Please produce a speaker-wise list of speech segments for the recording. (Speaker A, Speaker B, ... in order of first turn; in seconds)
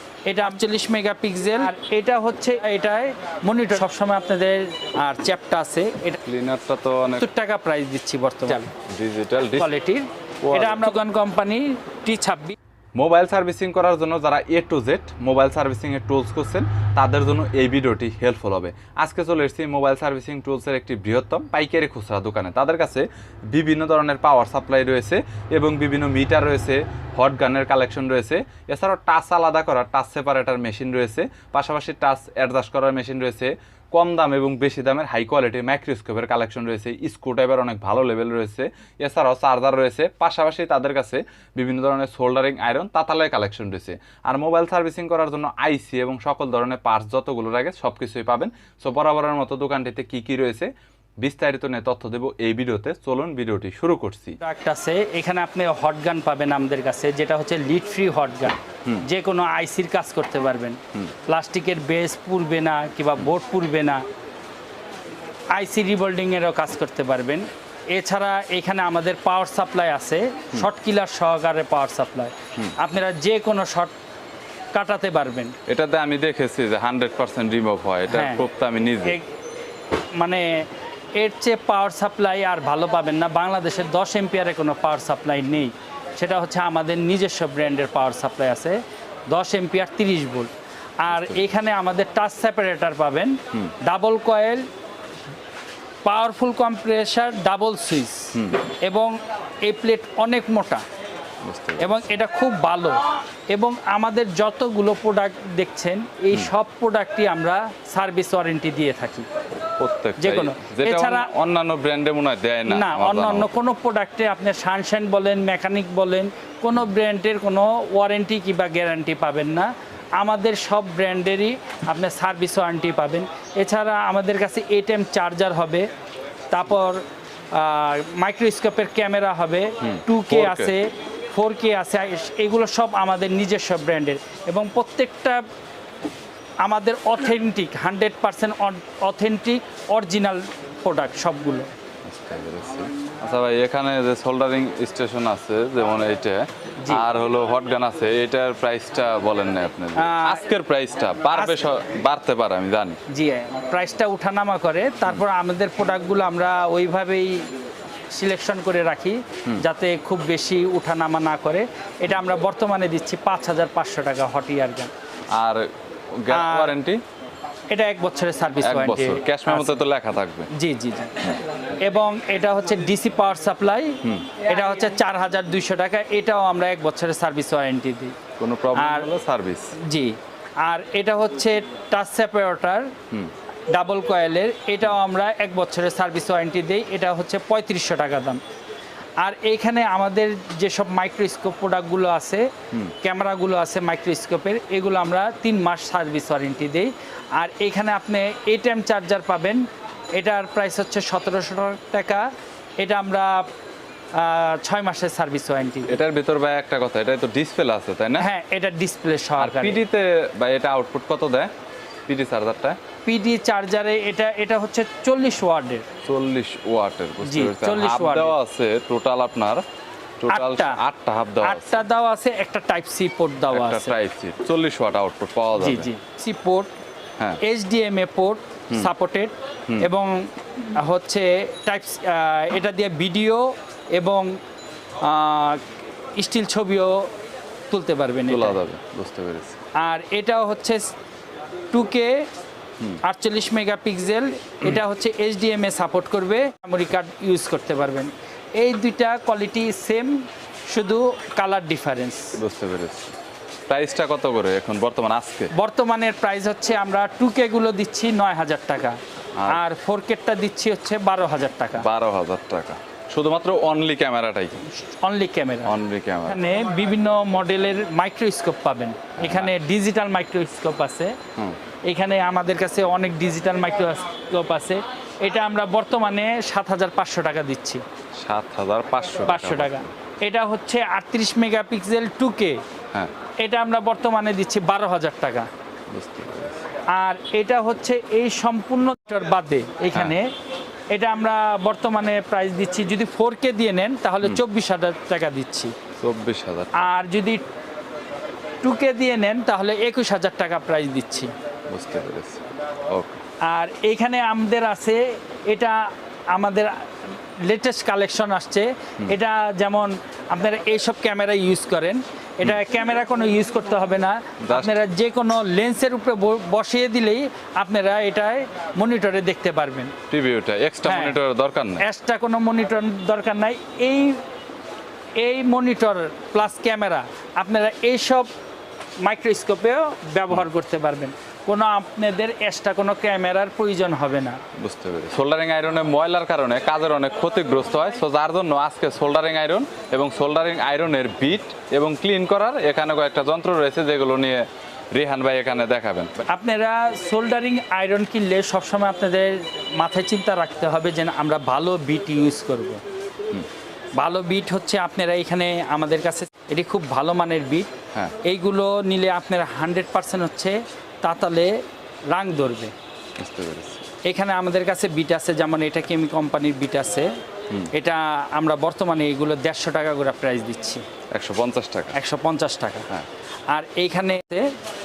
Speaker A: 0.3-6.2, 7.2-8.7, 9.6-12.6, 54.4-64.0, 65.6-73.9, 74.8-75.6, 78.1-78.4, 80.2-80.6, 81.2-88.8, 89.3-90.5, 91.0-94.7, 96.0-99.1, 99.7-100.8, 101.8-103.0, 103.5-109.3, 110.2-111.3, 112.7-125.9, 126.5-135.4, 136.6-141.7, 150.0-150.5, 151.3-151.7, 153.1-157.5, 158.2-164.9, 166.3-166.8, 167.7-169.8, 170.5-178.2, 178.8-179.1, 179.8-182.9, 183.7-188.4, 189.2-192.5, 193.0-199.6, 200.2-202.3, 202.8-203.5, 204.2-206.0, 208.2-209.8, 213.1-215.9, 217.2-218.3, 220.3-220.8, 221.4-223.9, 225.6-226.8, 227.4-234.3, 235.0-235.6, 236.2-237.1, 237.7-238.6, 239.8-240.9, 241.7-242.3, 243.0-250.2, 250.7-252.4, 255.5-261.9, 264.8-265.8, 266.3-271.2, 271.9-277.8, 279.2-282.6, 283.4-285.5, 286.9-290.3, 290.9-295.7, 296.7-297.4, 298.6-301.3, 303.4-306.7, 307.4-319.9, 320.9-321.2, 321.8-324.2, 325.2-328.3, 329.0-334.4, 346.2-352.8, 354.0-357.7, 358.2-361.5, 362.1-362.7, 364.1-367.1, 367.7-370.8, 371.9-372.9, 373.5-374.5
Speaker B: 6.2-7.2, 8.9-9.7, 10.4-10.9, 13.0-50.7, 51.2-54.4, 75.7-79.2, 91.1-91.4, 98.3-98.6, 101.4-102.0, 109.8-113.5, 129.8-130.7, 142.1-153.0, 165.3-165.7, 166.2-167.0, 168.6-170.5, 174.0-174.3, 178.4-179.8, 205.9-208.3, 209.4-211.5, 212.1-212.8, 216.0-219.7, 220.2-221.8, 223.5-225.9, 238.3-239.6, 252.4-253.2, 253.7-255.5, 261.8-264.6, 265.6-266.4, 269.2-269.5, 278.1-279.9, 285.9-286.6, 296.0-296.9, 301.7-303.2, 314.4-314.8, 320.1-321.8, 334.6-346.2, 363.2-363.8, 371.1-372.0